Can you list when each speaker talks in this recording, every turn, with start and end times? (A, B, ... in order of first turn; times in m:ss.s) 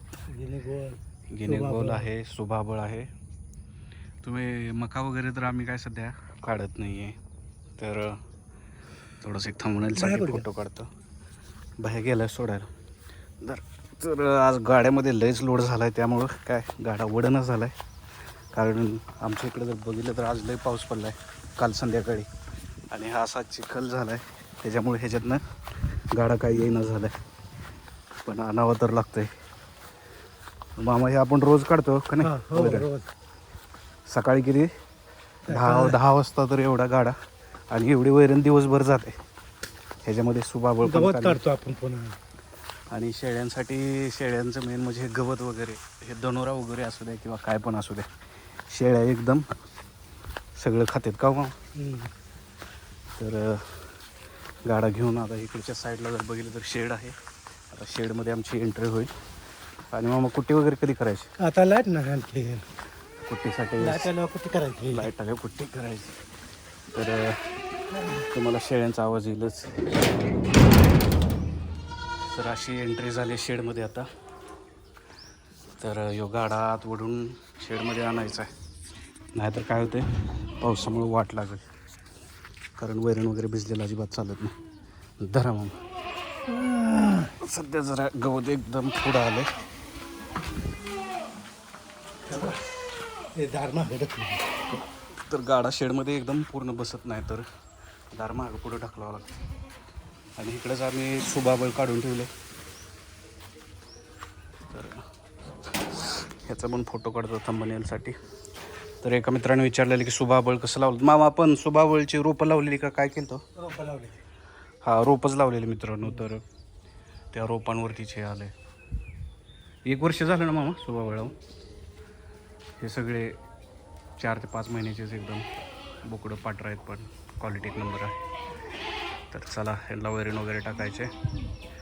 0:00.3-0:02.1 A
0:01.3-0:03.1 B
0:04.2-0:07.2 B
0:07.8-0:08.2 B
0:09.2-0:10.9 B
0:10.0-0:10.4 A
0:11.8-0:12.7 B
0:13.4-0:17.7 B
0:18.5-0:22.3 B
0:22.9-0:25.4 B
0:26.1-0:27.1 B
0:28.2-0:29.3 B
0:30.8-0:32.9 B
0:32.2-0:33.1 A
0:34.1-0:34.7 B
0:35.5-0:36.0 A
0:35.5-0:37.1 B
0:37.7-0:39.2 B
0:40.0-0:41.4 B
0:40.8-0:42.2 A
0:42.9-0:48.1 B
0:48.7-0:49.4 B
0:50.6-0:51.6 B
0:51.7-0:52.1 A
0:53.2-0:53.9 B
0:54.6-0:57.2 B
0:57.7-0:59.1 B
0:59.9-1:01.3 B
1:01.4-1:02.6 A
1:03.2-1:04.1 B
1:03.8-1:05.1 A
1:04.9-1:06.1 B
1:06.9-1:07.4 B
1:08.3-1:10.1 B
1:12.3-1:14.1 B
1:15.8-1:18.5 B
1:19.3-1:20.1 B
1:20.6-1:21.6 B
1:22.8-1:24.6 B
1:25.2-1:25.8 B
1:26.5-1:27.3 A
1:27.4-1:29.5 B
1:32.3-1:32.6 A
1:33.4-1:34.5 A
1:35.2-1:37.4 B
1:38.1-1:39.3 B
1:40.4-1:42.3 B
1:44.7-1:45.0 B
1:46.3-1:48.2 B
1:49.0-1:53.4 B
1:53.6-1:54.2 A
1:54.8-1:56.4 B
1:57.3-1:58.5 B
1:59.9-2:01.4 B
2:02.8-2:03.4 B
2:04.2-2:05.5 B
2:06.0-2:08.2 B
2:09.3-2:11.1 B